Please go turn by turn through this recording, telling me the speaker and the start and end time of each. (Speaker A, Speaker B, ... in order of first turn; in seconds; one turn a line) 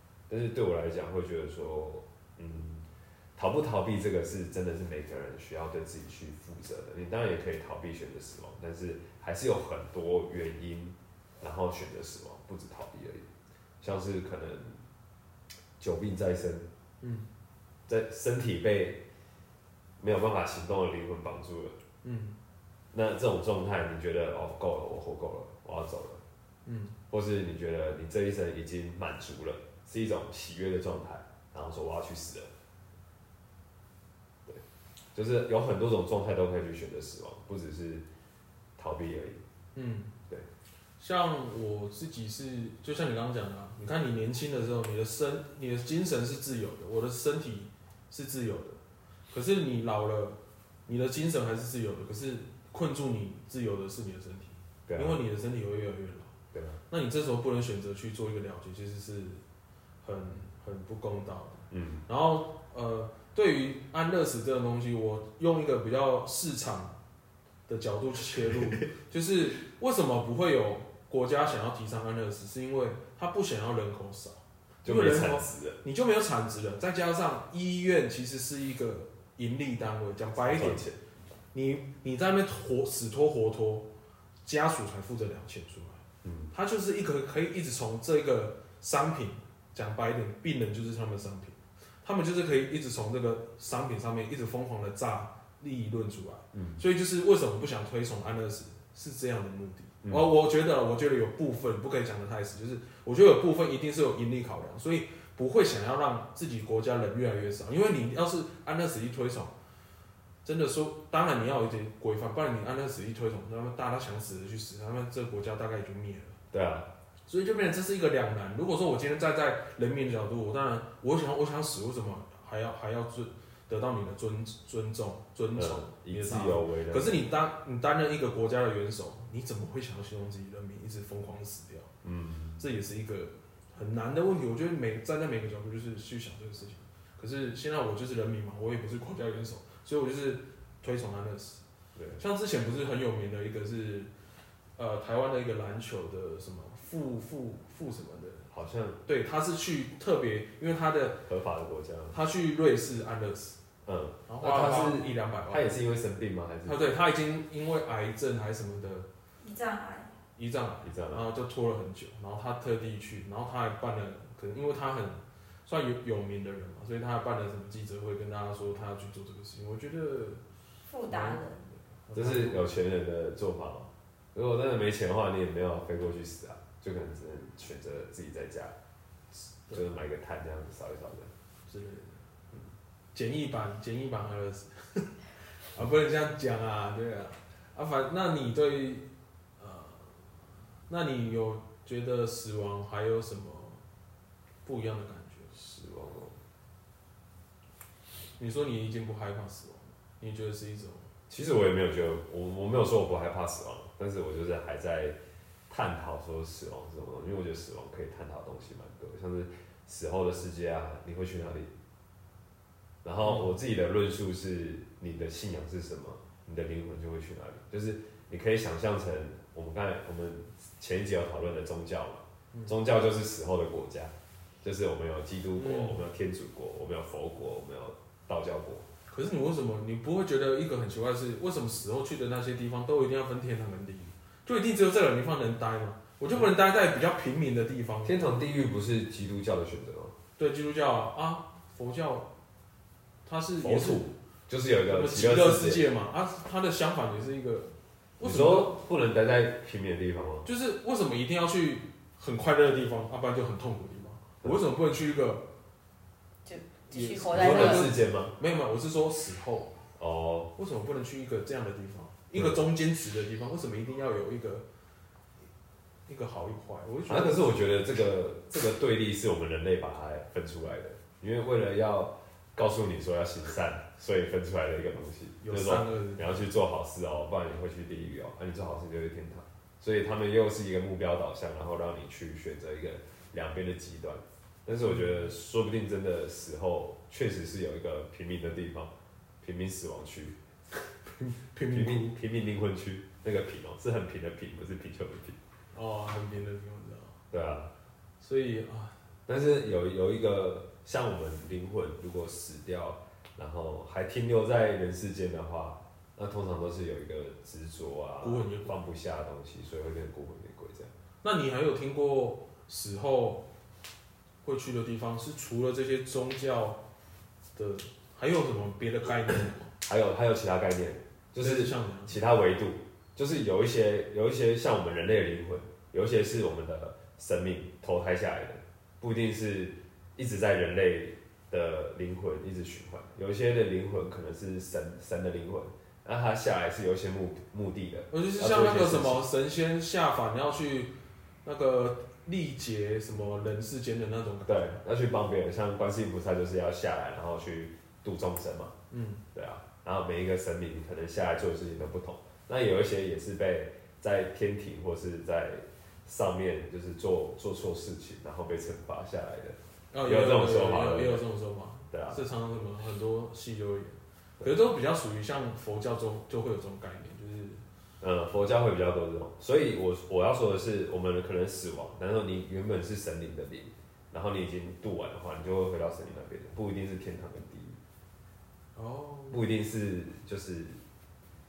Speaker A: 0.3-13.3
Speaker A: 13.8-14.8
Speaker A: 15.8-16.7
Speaker B: 17.0-17.3
Speaker A: 17.9-19.0
Speaker A: 20.0-21.8
Speaker B: 22.0-22.4
Speaker A: 22.9-26.2
Speaker B: 26.6-26.9
Speaker A: 27.1-32.5
Speaker A: 35.1-38.0
Speaker A: 38.8-39.4
Speaker B: 39.7-40.1
Speaker B: 41.0-56.3
Speaker A: 54.9-55.2
Speaker A: 56.5-56.8
Speaker B: 56.9-59.4
Speaker B: 60.0-67.0
Speaker A: 61.7-62.0
Speaker B: 67.7-80.8
Speaker A: 74.8-75.8
Speaker A: 80.4-81.0
Speaker B: 81.5-83.9
Speaker B: 84.4-86.0
Speaker A: 86.2-86.5
Speaker B: 86.5-109.5
Speaker A: 96.5-96.8
Speaker A: 100.0-100.3
Speaker B: 110.4-116.4
Speaker A: 116.5-116.9
Speaker B: 117.3-131.9
Speaker A: 125.5-127.2
Speaker A: 132.0-132.6
Speaker B: 132.6-141.6
Speaker A: 141.9-142.2
Speaker B: 142.2-144.1
Speaker B: 144.8-148.5
Speaker A: 148.5-149.0
Speaker B: 149.0-151.2
Speaker A: 151.2-152.2
Speaker B: 152.1-153.6
Speaker A: 153.8-156.9
Speaker B: 154.3-155.7
Speaker B: 156.6-159.1
Speaker C: 159.4-160.1
Speaker B: 160.3-170.4
Speaker A: 160.8-161.3
Speaker C: 170.9-171.6
Speaker B: 171.0-172.7
Speaker A: 172.1-178.8
Speaker B: 179.7-180.0
Speaker A: 179.7-181.3
Speaker B: 181.7-190.2
Speaker B: 190.9-193.8
Speaker B: 194.6-195.5
Speaker A: 195.5-196.4
Speaker B: 198.3-201.1
Speaker A: 201.3-205.2
Speaker A: 205.7-211.7
Speaker A: 213.0-228.8
Speaker B: 213.2-213.6
Speaker B: 225.5-226.1
Speaker B: 229.1-238.2
Speaker A: 238.0-240.1
Speaker B: 240.4-242.3
Speaker B: 243.2-244.1
Speaker A: 243.6-245.8
Speaker B: 244.9-248.8
Speaker A: 248.2-250.5
Speaker B: 250.4-255.4
Speaker C: 256.4-257.8
Speaker B: 256.9-259.8
Speaker A: 257.3-258.4
Speaker A: 260.0-260.5
Speaker B: 260.5-264.6
Speaker A: 262.3-262.6
Speaker B: 266.1-267.6
Speaker A: 267.1-290.4
Speaker B: 275.4-276.4
Speaker B: 284.9-285.2
Speaker B: 290.7-292.2
Speaker A: 291.7-295.4
Speaker B: 295.7-297.2
Speaker A: 297.3-297.7
Speaker B: 298.2-299.0
Speaker A: 299.3-310.9
Speaker B: 308.2-308.7
Speaker B: 311.2-313.4
Speaker B: 314.4-316.8
Speaker B: 317.5-319.7
Speaker A: 319.8-339.3
Speaker B: 321.4-322.2
Speaker B: 338.1-344.8
Speaker A: 344.4-348.7
Speaker B: 348.9-349.2
Speaker A: 349.3-361.2
Speaker B: 359.9-367.6
Speaker A: 361.9-362.2
Speaker A: 368.0-377.8
Speaker B: 378.7-379.4
Speaker A: 379.3-380.8